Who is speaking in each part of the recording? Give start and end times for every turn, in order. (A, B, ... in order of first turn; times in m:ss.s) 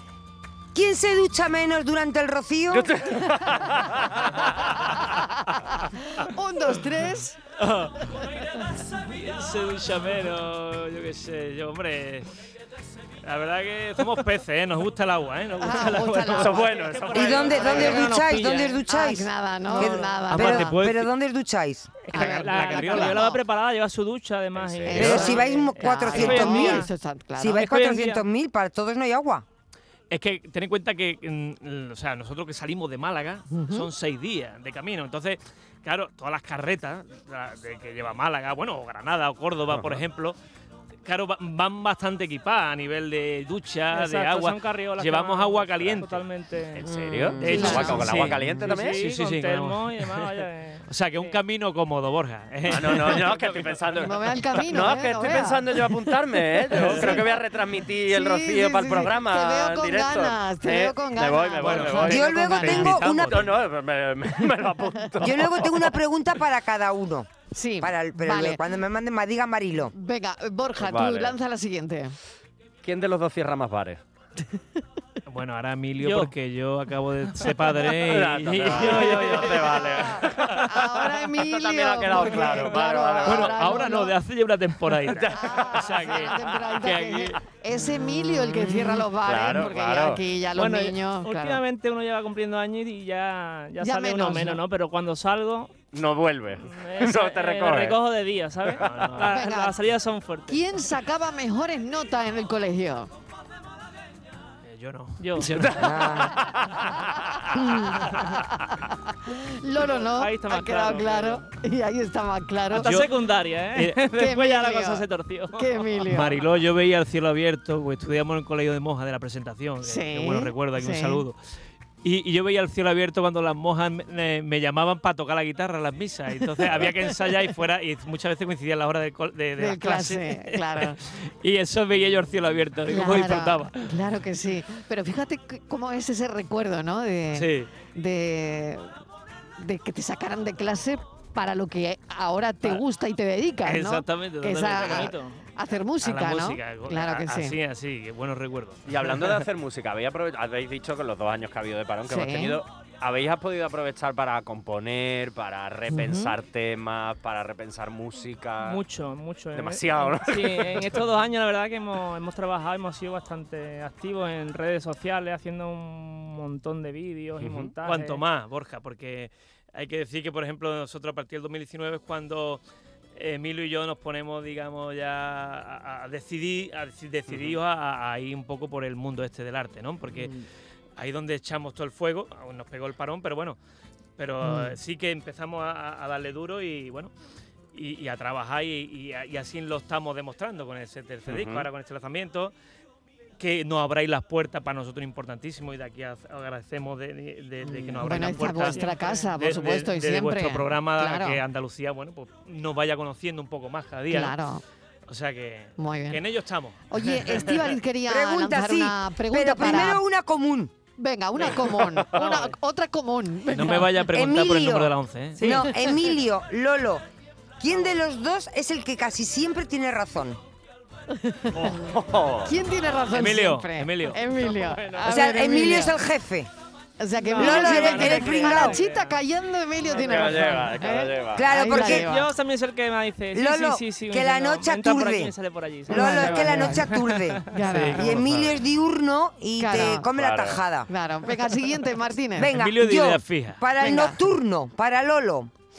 0:00.7-0:02.9 A
0:02.7-0:04.3 B
0:03.2-0:03.6 C
0:05.2-0:07.4 C
0:07.6-0:12.3 D
0:08.0-0:10.0 E
0:13.2-0:16.7 D
0:15.6-0:18.3 C
0:16.3-0:18.1 B
0:16.5-0:18.8 E
0:17.1-0:22.0 A
0:18.9-0:20.8 C
0:19.7-0:20.3 E
0:20.3-0:21.1 D
0:22.0-0:26.9 E
0:22.1-0:23.4 C
0:22.1-0:23.3 D
0:24.6-0:25.2 B
0:24.9-0:27.6 C
0:24.9-0:29.4 A
0:27.6-0:28.2 E
0:30.1-0:40.4 D
0:33.5-0:33.9 C
0:39.7-0:40.0 B
0:41.0-0:46.3 D
0:43.9-0:48.0 E
0:46.8-0:49.0 B
0:46.8-0:47.7 A
0:47.4-0:50.3 D
0:47.4-0:48.3 C
0:48.6-0:51.4 E
0:50.9-0:53.8 D
0:52.7-1:02.4 B
0:54.0-0:55.9 C
0:56.7-0:57.4 C
0:56.7-0:57.2 D
0:58.0-1:03.0 C
1:01.6-1:03.6 D
1:02.0-1:03.5 A
1:03.2-1:05.9 B
1:05.2-1:09.9 A
1:07.5-1:08.6 C
1:10.0-1:12.2 C
1:10.8-1:11.4 B
1:12.8-1:14.0 B
1:15.3-1:20.9 D
1:16.0-1:16.3 E
1:18.0-1:20.7 B
1:18.6-1:20.0 E
1:20.6-1:24.1 C
1:21.3-1:23.8 B
1:23.2-1:27.4 D
1:25.0-1:26.0 B
1:25.3-1:31.6 C
1:28.3-1:29.0 A
1:29.2-1:30.2 B
1:30.5-1:35.7 E
1:33.8-1:34.6 C
1:35.9-1:38.0 B
1:36.6-1:40.6 E
1:38.7-1:39.0 B
1:38.8-1:39.4 D
1:39.3-1:39.8 C
1:40.5-1:43.1 C
1:44.6-1:46.0 D
1:45.2-1:45.6 E
1:45.4-1:47.6 B
1:45.8-1:46.4 A
1:47.6-1:53.0 C
1:50.0-1:51.5 E
1:52.7-1:56.1 E
1:52.7-1:53.2 D
1:53.7-1:54.0 D
1:54.2-1:55.0 C
1:55.6-1:56.4 C
1:56.1-2:01.4 D
1:59.8-2:01.2 C
2:02.0-2:14.0 D
2:09.6-2:11.0 C
2:12.9-2:18.9 C
2:17.3-2:17.7 D
2:19.6-2:27.6 C
2:23.6-2:25.1 D
2:24.7-2:25.4 E
2:26.0-2:29.2 D
2:28.9-2:38.8 B
2:32.1-2:32.6 C
2:35.9-2:36.4 C
2:38.6-2:48.2 E
2:39.5-2:41.0 B
2:47.4-2:47.8 B
2:47.8-2:52.6 D
2:53.2-3:00.4 D
3:01.0-3:03.6 D
3:04.2-3:07.1 D
3:07.7-3:12.5 D
3:11.3-3:11.7 B
3:13.4-3:24.4 D
3:18.0-3:21.4 C
3:18.5-3:19.3 E
3:24.1-3:24.6 C
3:25.1-3:27.6 D
3:25.8-3:26.2 C
3:26.9-3:30.0 C
3:28.0-3:30.7 A
3:31.0-3:34.0 C
3:31.8-3:32.2 B
3:32.1-3:32.6 E
3:33.5-3:35.6 D
3:34.1-3:37.0 A
3:35.4-3:36.0 E
3:37.6-3:40.4 A
3:41.1-3:41.8 C
3:41.5-3:42.5 B
3:42.4-3:46.0 C
3:43.1-3:44.2 D
3:44.3-3:45.1 E
3:45.1-3:46.5 A
3:47.0-3:52.3 C
3:47.2-3:49.2 E
3:47.4-3:48.8 A
3:49.9-3:50.6 E
3:50.0-3:51.6 B
3:51.3-3:52.1 A
3:51.6-3:57.6 E
3:53.3-3:55.3 A
3:55.9-4:00.9 A
3:55.9-3:56.9 C
3:57.5-3:58.2 C
3:57.6-3:58.6 D
3:59.6-4:00.1 C
4:00.1-4:00.6 B
4:00.9-4:02.6 C
4:02.4-4:05.5 A
4:02.5-4:03.6 D
4:03.8-4:04.2 C